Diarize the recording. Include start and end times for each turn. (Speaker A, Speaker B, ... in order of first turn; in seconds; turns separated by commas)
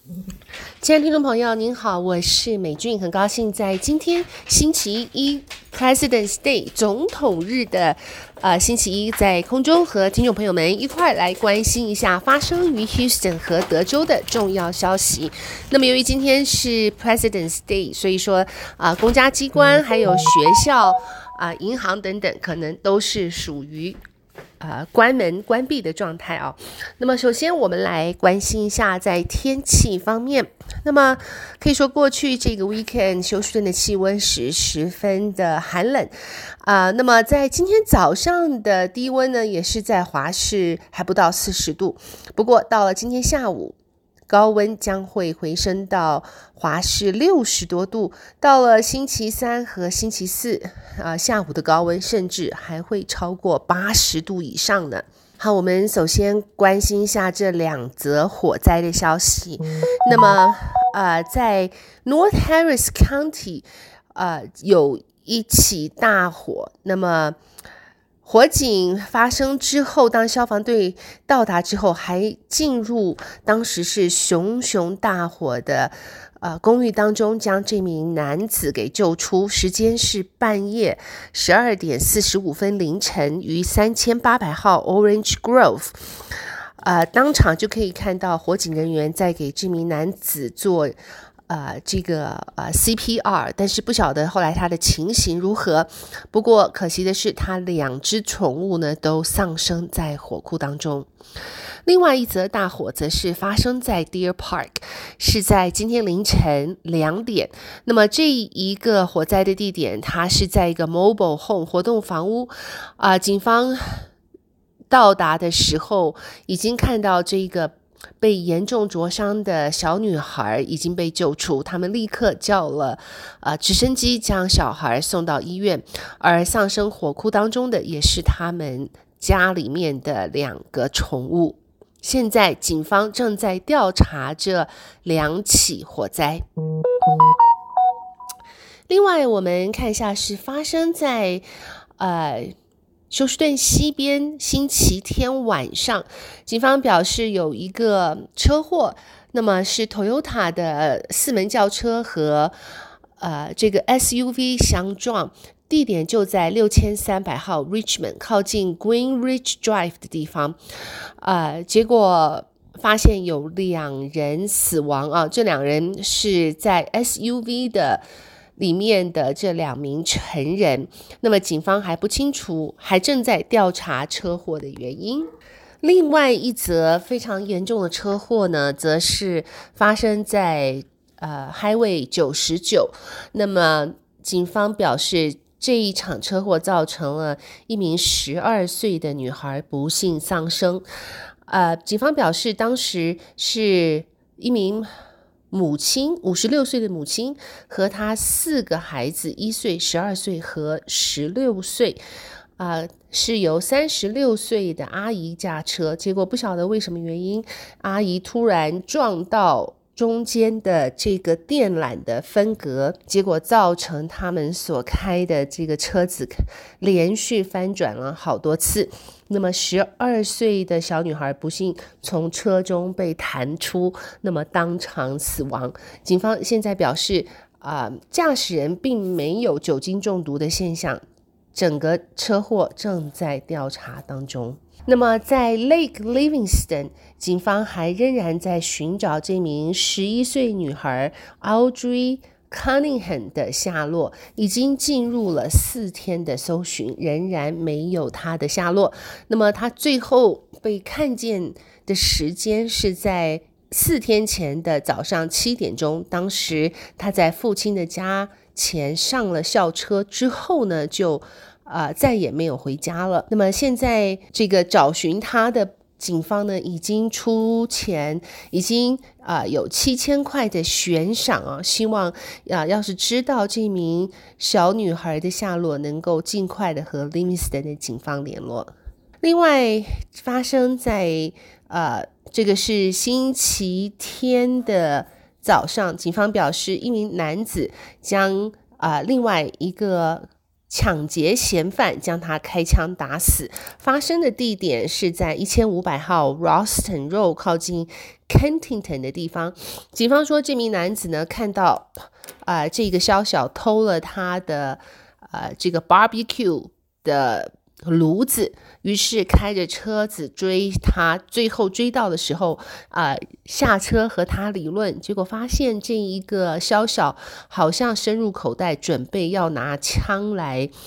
Speaker A: 0.8-24.0, Speaker A: 24.6-43.8, Speaker A: 44.3-67.4, Speaker A: 68.2-86.0, Speaker A: 86.8-91.0, Speaker A: 91.5-101.1, Speaker A: 101.9-114.1, Speaker A: 114.9-136.4, Speaker A: 138.9-141.4, Speaker A: 142.0-142.6, Speaker A: 143.1-152.5, Speaker A: 153.2-160.6, Speaker A: 161.2-168.0, Speaker A: 168.6-175.3, Speaker A: 175.8-190.8, Speaker A: 191.5-194.9, Speaker A: 195.5-202.0, Speaker A: 202.6-231.0, Speaker A: 231.5-301.9, Speaker A: 302.4-320.7